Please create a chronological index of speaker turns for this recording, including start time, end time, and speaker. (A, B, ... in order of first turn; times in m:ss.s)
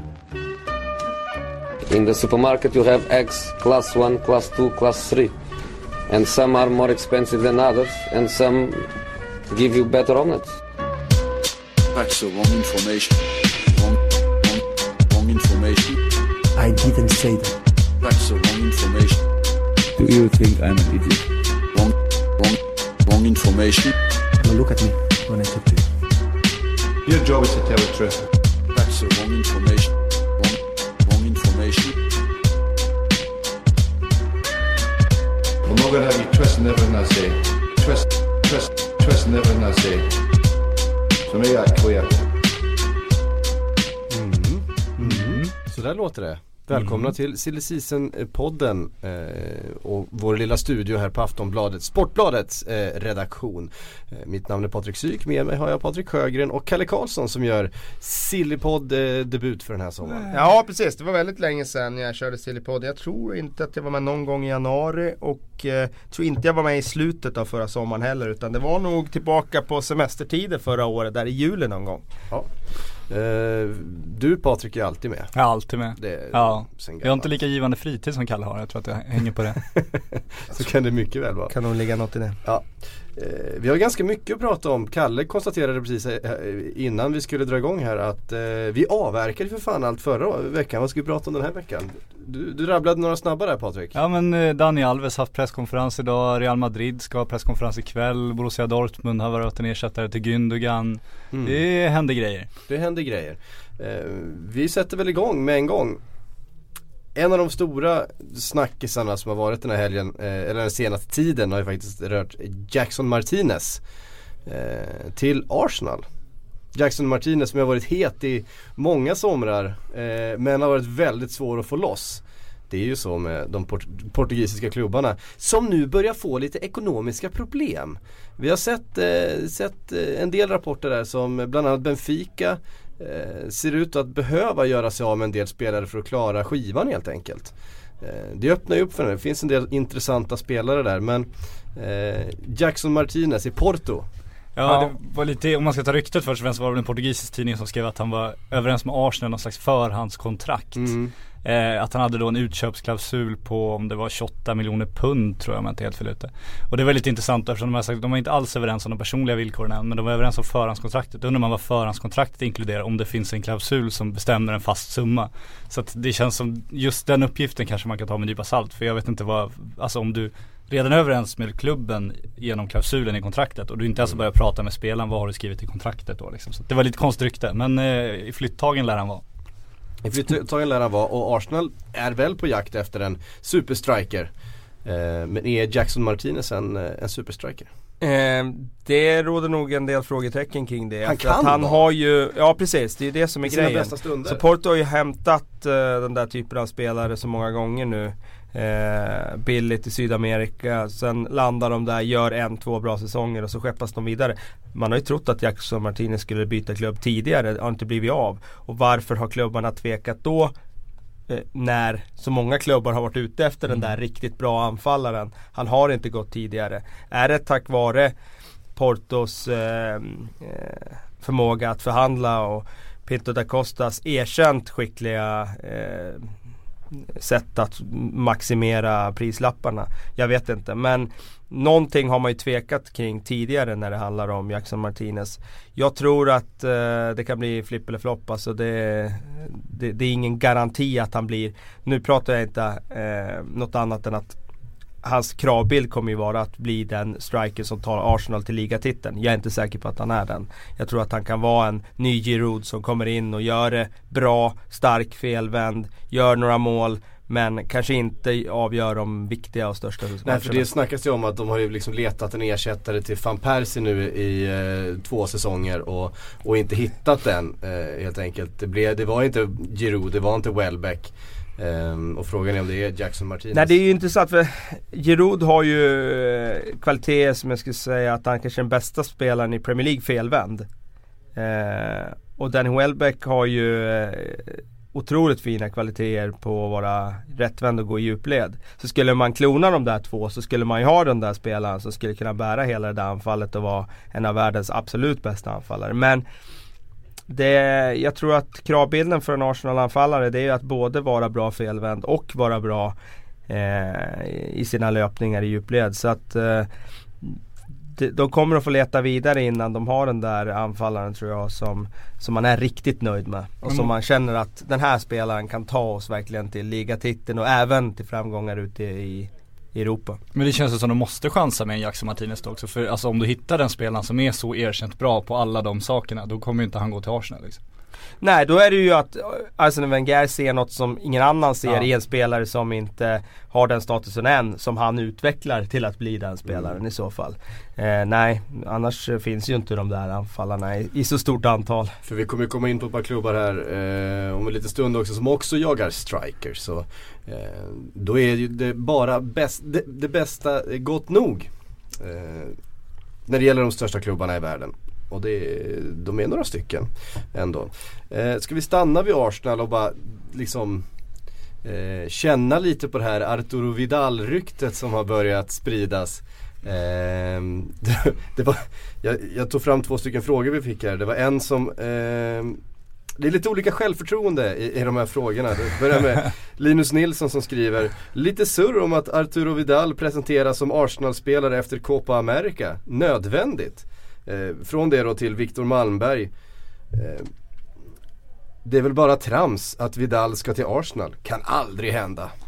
0:01.9-0:05.4 A
0:06.1-0:08.9 A
0:09.5-0:10.6 A
0:11.9-0:16.0 B
0:16.6-0:17.6 C
0:18.0-0:19.2 B
0:20.0-0:21.2 C
0:21.7-0:23.9 B
0:24.4-0:25.9 C
0:27.0-0:28.3 D
0:28.7-0:32.0 B
0:35.6-0:40.1 D
0:41.3-0:42.2 D
0:44.1-1:00.3 E
1:00.3-1:12.0 F
1:12.3-1:15.4 E
1:15.4-1:19.7 G
1:16.0-1:17.3 E
1:20.5-1:21.5 E
1:21.5-1:22.4 F
1:22.4-1:34.0 E
1:33.9-1:42.5 G
1:41.3-1:41.6 E
1:42.7-1:46.0 E
1:47.2-1:53.8 E
1:54.5-1:56.1 E
1:56.7-2:24.1 E
2:24.6-2:59.2 G
2:30.8-2:31.1 E
3:00.0-3:04.3 E
3:04.8-3:07.7 E
3:08.0-3:30.5 F
3:11.0-3:11.8 E
3:13.4-3:14.4 E
3:31.3-3:38.1 F
3:38.8-3:46.3 F
3:47.2-4:04.4 F
4:05.0-4:20.6 F
4:20.2-4:33.8 E
4:33.5-4:40.7 F
4:41.4-4:56.2 F
4:57.3-5:03.0 F
5:03.5-5:06.7 F
5:07.9-5:20.2 F
5:20.4-5:27.6 G
5:28.2-5:42.0 F
5:36.5-5:36.7 E
5:42.0-5:52.6 E
5:53.3-6:00.9 E
6:01.6-6:12.6 E
6:13.2-6:26.3 E
6:26.9-6:27.3 E
6:28.6-6:32.3 E